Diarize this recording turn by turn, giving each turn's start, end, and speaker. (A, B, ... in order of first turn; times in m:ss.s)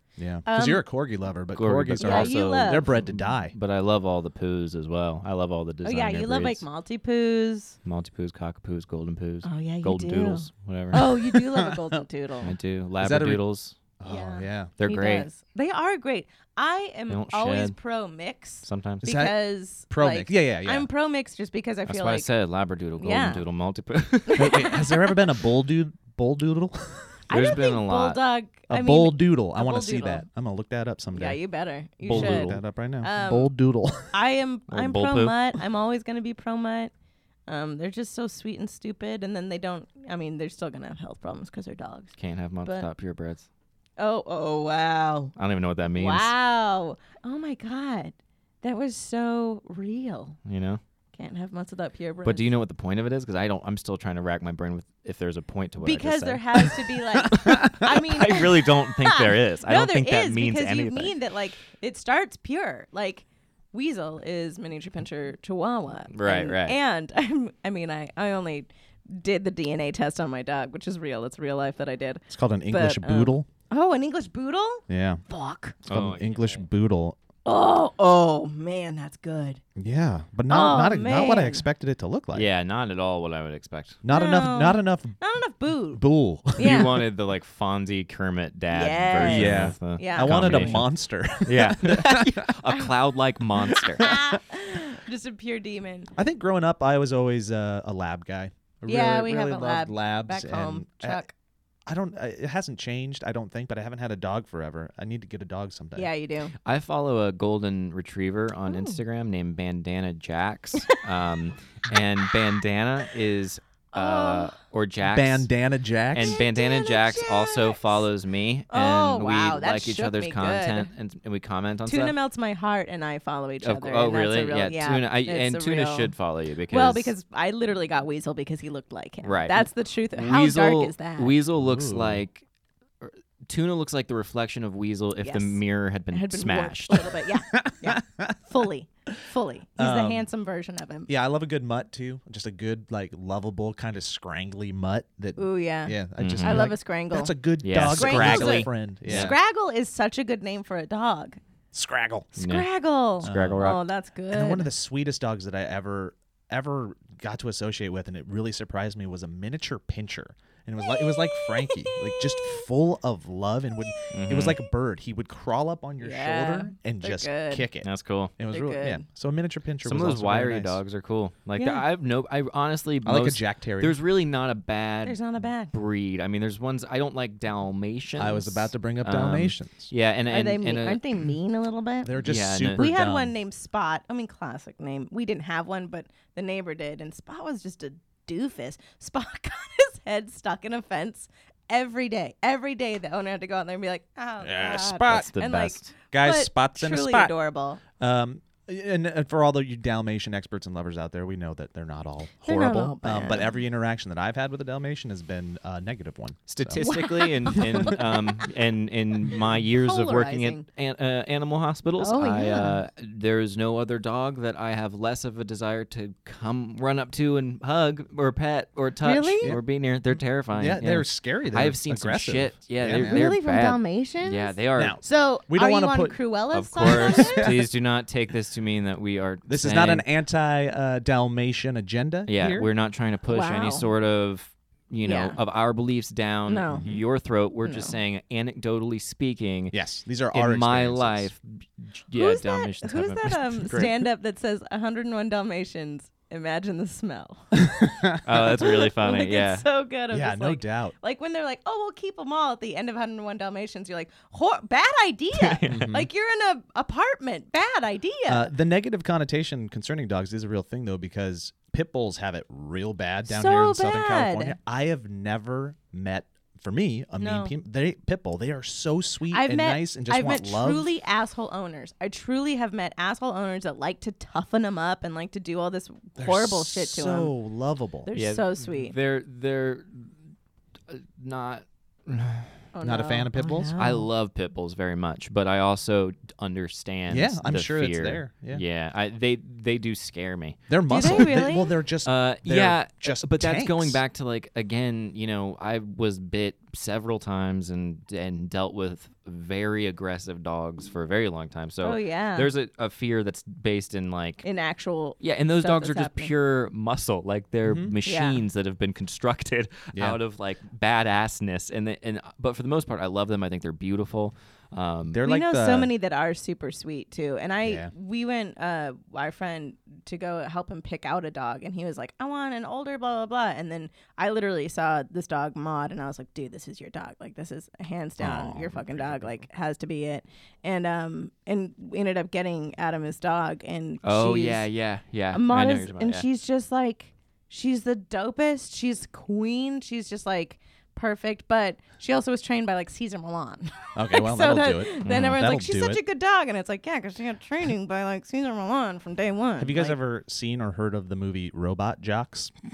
0:00.2-0:03.5 A
0:00.4-0:00.8 B
0:01.5-0:06.6 C
0:02.0-0:03.0 B
0:05.8-0:07.8 B
0:07.8-0:11.1 C
0:09.4-0:12.5 B
0:11.6-0:11.9 A
0:12.4-0:13.8 C
0:13.0-0:13.4 A
0:14.0-0:14.7 A
0:14.0-0:22.3 B
0:14.8-0:15.3 C
0:17.1-0:17.7 C
0:18.6-0:19.1 C
0:19.0-0:19.4 A
0:19.9-0:20.9 A
0:21.9-0:24.7 C
0:23.0-0:23.4 B
0:24.3-0:25.0 B
0:24.4-0:27.2 A
0:27.3-0:30.2 B
0:27.3-0:28.2 C
0:28.7-0:31.4 A
0:31.1-0:33.5 B
0:32.0-0:32.6 C
0:32.1-0:34.1 A
0:34.1-0:36.9 B
0:34.7-0:35.4 C
0:37.5-0:42.1 B
0:42.2-0:43.5 C
0:44.0-0:45.3 B
0:45.4-0:46.3 C
0:45.9-0:50.4 B
0:50.4-0:50.8 C
0:51.1-0:52.5 B
0:52.2-0:56.7 C
0:55.8-1:15.8 B
0:57.2-0:57.9 A
0:57.3-1:01.1 C
1:06.1-1:06.8 C
1:12.3-1:13.5 A
1:14.9-1:15.2 A
1:15.8-1:17.2 A
1:15.9-1:16.6 C
1:17.4-1:19.6 B
1:19.8-1:22.5 A
1:20.5-1:21.6 B
1:22.3-1:24.0 C
1:24.0-1:25.2 A
1:24.1-1:26.0 B
1:25.9-1:26.7 A
1:26.6-1:27.0 B
1:26.6-1:30.9 C
1:28.7-1:30.8 B
1:29.2-1:32.5 A
1:31.4-1:34.1 C
1:33.7-1:34.4 A
1:34.0-1:36.1 B
1:36.2-1:41.2 A
1:38.9-1:41.3 B
1:41.9-1:46.1 A
1:45.9-1:46.5 B
1:46.6-1:55.5 C
1:48.7-1:49.0 B
1:53.9-1:54.5 B
1:55.0-1:56.4 A
1:56.1-2:02.1 C
1:56.3-1:58.0 B
1:58.7-2:00.9 B
2:01.8-2:06.1 B
2:03.6-2:07.1 C
2:06.7-2:11.3 B
2:09.2-2:12.4 C
2:11.6-2:12.2 A
2:13.0-2:17.1 C
2:15.2-2:15.6 B
2:16.1-2:21.1 B
2:17.5-2:18.4 A
2:19.8-2:20.3 A
2:21.1-2:29.3 A
2:25.4-2:27.3 B
2:26.2-2:26.7 C
2:27.6-2:29.4 C
2:27.9-2:31.4 B
2:31.7-2:32.3 A
2:32.4-2:34.7 B
2:32.4-2:33.8 C
2:33.2-2:33.7 A
2:34.3-2:50.8 A
2:40.8-2:42.6 B
2:44.1-2:44.6 C
2:46.0-2:47.7 B
2:47.8-2:48.3 C
2:48.5-2:49.0 B
2:49.8-3:01.2 C
2:51.6-2:51.8 B
2:53.0-2:54.0 A
2:55.0-2:55.7 B
2:58.2-2:59.9 A
3:00.3-3:02.2 B
3:02.0-3:03.3 A
3:02.2-3:02.8 C
3:02.7-3:17.8 B
3:14.4-3:15.3 A
3:15.1-3:15.9 C
3:16.1-3:17.3 A
3:18.0-3:26.9 A
3:22.4-3:23.5 B
3:26.5-3:45.0 C
3:26.8-3:28.2 B
3:29.7-3:30.6 B
3:32.0-3:32.8 B
3:39.0-3:39.6 B
3:40.5-3:43.3 A
3:42.9-3:47.5 B
3:44.8-3:46.2 A
3:46.5-3:50.0 C
3:46.8-3:47.7 A
3:49.5-3:52.7 A
3:52.3-3:59.8 C
3:53.3-3:53.9 B
3:55.0-3:55.4 B
3:56.5-3:56.9 B
3:56.7-3:57.0 A
3:57.6-3:57.9 B
3:59.7-4:01.3 A
4:00.3-4:03.9 C
4:02.2-4:07.6 B
4:07.5-4:08.4 A
4:08.2-4:09.6 C
4:08.6-4:18.5 B
4:10.1-4:10.9 A
4:15.3-4:15.9 C
4:15.7-4:16.1 A
4:18.3-4:30.9 A
4:23.2-4:24.6 B
4:27.2-4:27.5 B
4:29.3-4:37.3 B
4:36.2-4:38.1 A
4:38.0-4:38.9 B
4:38.1-4:40.1 C
4:40.9-4:42.6 C
4:42.7-4:44.1 B
4:42.8-4:43.7 A
4:43.8-4:51.4 C
4:47.1-4:48.6 A
4:50.7-4:54.0 A
4:50.9-4:51.7 B
4:52.0-5:04.4 C
5:01.8-5:02.5 B
5:04.4-5:06.3 B
5:05.2-5:15.2 C
5:07.6-5:07.9 A
5:08.0-5:08.4 B
5:09.9-5:10.2 A
5:15.1-5:15.9 A
5:15.2-5:34.6 B
5:17.6-5:17.9 A
5:28.2-5:29.3 A
5:34.0-5:36.2 C
5:35.3-5:50.0 B
5:43.9-5:46.0 A
5:45.0-5:45.4 C
5:49.6-5:52.5 A